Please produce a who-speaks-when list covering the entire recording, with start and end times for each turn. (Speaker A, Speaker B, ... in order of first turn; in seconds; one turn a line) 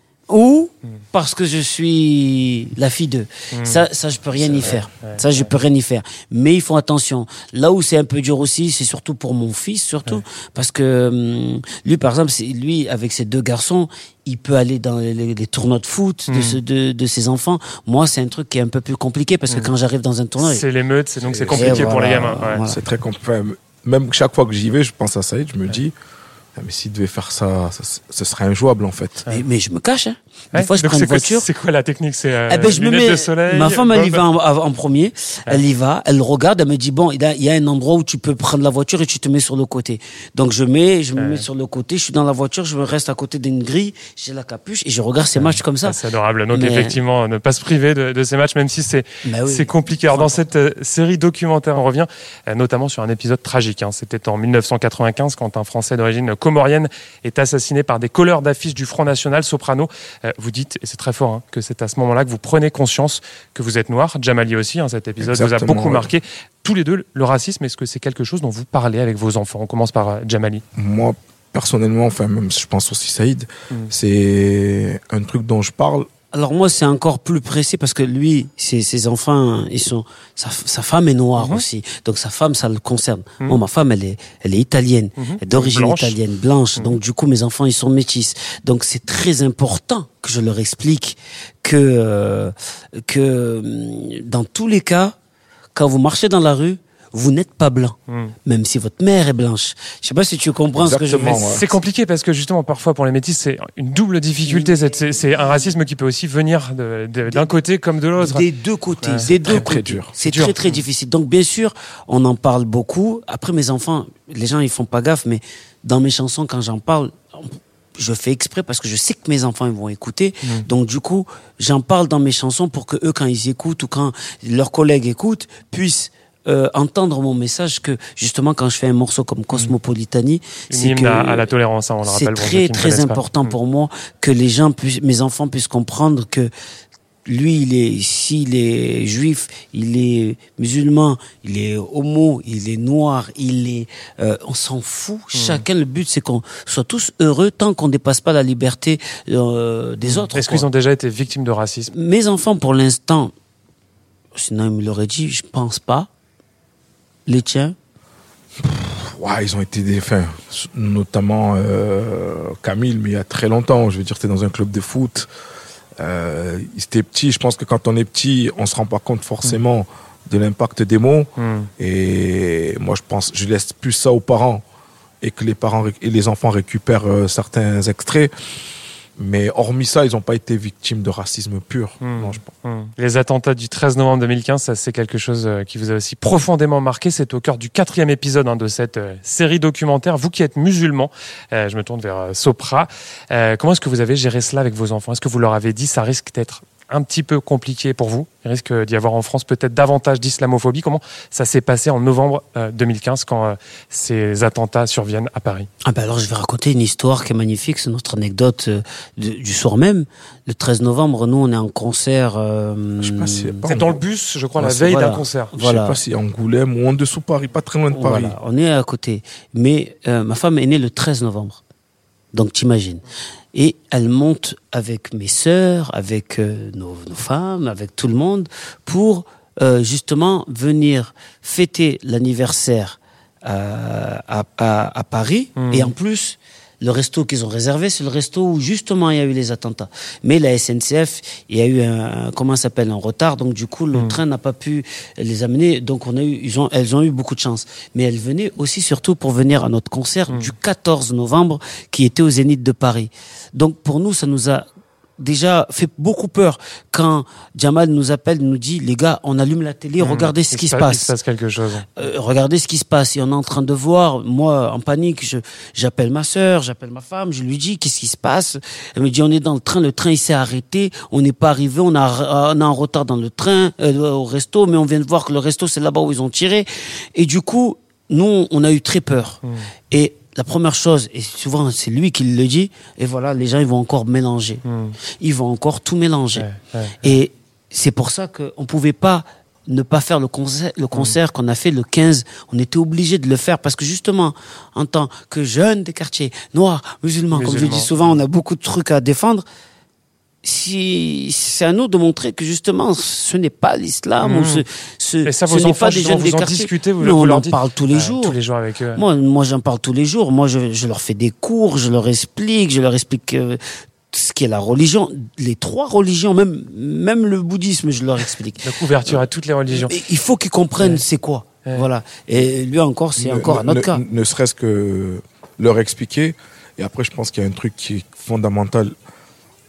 Speaker A: 0.3-20.6
Speaker B: 3.5-3.8
Speaker B: 4.4-5.5
Speaker B: 16.3-16.6
Speaker B: 20.4-22.6
Speaker C: 21.2-22.0
Speaker A: 21.5-22.8
Speaker C: 22.7-25.9
Speaker C: 26.6-29.3
Speaker A: 29.3-31.5
Speaker B: 30.5-34.2
Speaker A: 32.5-46.0
Speaker B: 41.2-41.5
Speaker B: 45.4-70.6
Speaker A: 46.5-47.0
Speaker A: 49.2-50.4
Speaker C: 65.2-66.1
Speaker C: 70.8-76.1
Speaker A: 76.3-95.2
Speaker B: 81.4-81.6
Speaker B: 85.2-86.2
Speaker A: 95.8-98.0
Speaker B: 98.1-98.3
Speaker A: 98.5-101.5
Speaker C: 100.8-101.6
Speaker B: 101.3-108.5
Speaker A: 104.5-104.8
Speaker A: 108.2-131.5
Speaker B: 109.0-109.6
Speaker C: 109.5-110.1
Speaker B: 110.2-110.8
Speaker B: 130.7-133.5
Speaker A: 132.1-136.5
Speaker A: 137.3-150.7
Speaker B: 145.3-145.6
Speaker B: 150.1-151.9
Speaker A: 151.9-153.3
Speaker A: 154.3-156.1
Speaker A: 157.3-157.8
Speaker C: 158.6-165.3
Speaker C: 166.0-174.6
Speaker B: 171.4-171.7
Speaker C: 175.2-178.3
Speaker C: 179.2-182.5
Speaker B: 182.0-205.7
Speaker A: 205.8-213.7
Speaker C: 213.0-214.0
Speaker B: 213.7-215.5
Speaker A: 214.6-216.0
Speaker C: 215.6-218.4
Speaker A: 217.9-221.6
Speaker A: 222.3-223.0
Speaker A: 223.5-254.7
Speaker B: 235.6-235.9
Speaker A: 255.2-261.1
Speaker B: 260.0-261.9
Speaker A: 262.0-279.4
Speaker A: 279.9-284.6
Speaker B: 284.6-285.0
Speaker A: 285.2-286.5
Speaker B: 286.4-287.1
Speaker A: 287.0-299.4
Speaker B: 297.3-297.9
Speaker A: 300.4-308.4
Speaker B: 304.2-304.6
Speaker B: 305.2-309.0
Speaker A: 308.9-313.6
Speaker A: 314.1-319.1
Speaker B: 318.6-320.0
Speaker A: 319.7-324.0
Speaker C: 323.2-328.9